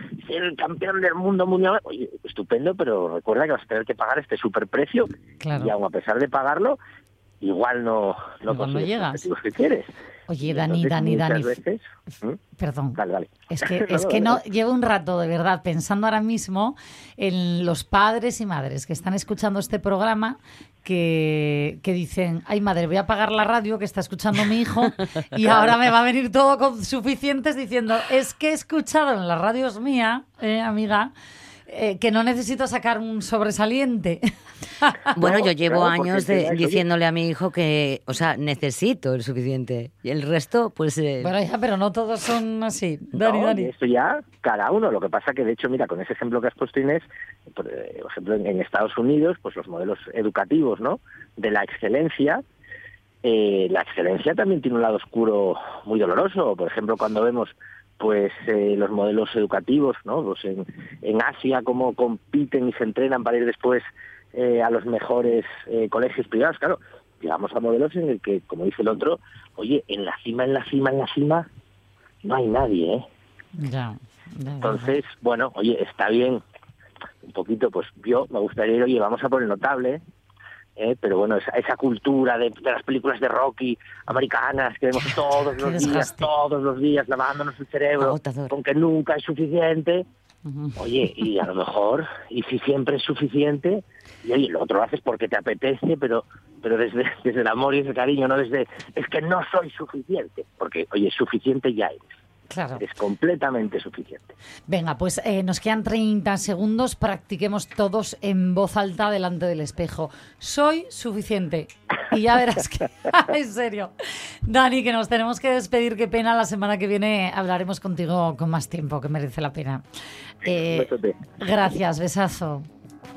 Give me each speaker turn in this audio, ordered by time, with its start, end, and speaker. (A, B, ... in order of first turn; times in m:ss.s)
0:00.2-0:06.8 A
0:05.4-0:05.7 B
0:07.4-0:12.4 A
0:08.5-0:09.3 B
0:10.3-0:11.6 B
0:12.6-0:31.1 B
0:13.0-0:14.4 A
0:31.7-0:34.2 B
0:35.2-0:41.3 C
0:35.2-0:36.8 A
0:41.2-0:43.7 B
0:43.1-0:52.4 A
0:53.2-1:11.5 A
1:12.2-1:13.0 A
1:13.6-1:15.0 B
1:14.6-1:16.4 A
1:17.2-1:20.0 A
1:20.8-1:30.1 A
1:25.0-1:26.3 B
1:28.0-1:28.6 C
1:30.5-1:31.3 B
1:30.8-1:42.1 A
1:42.5-1:42.8 B
1:42.8-1:44.3 A
1:44.7-1:53.9 B
1:54.5-1:59.8 B
2:00.4-2:02.7 B
2:00.5-2:01.2 A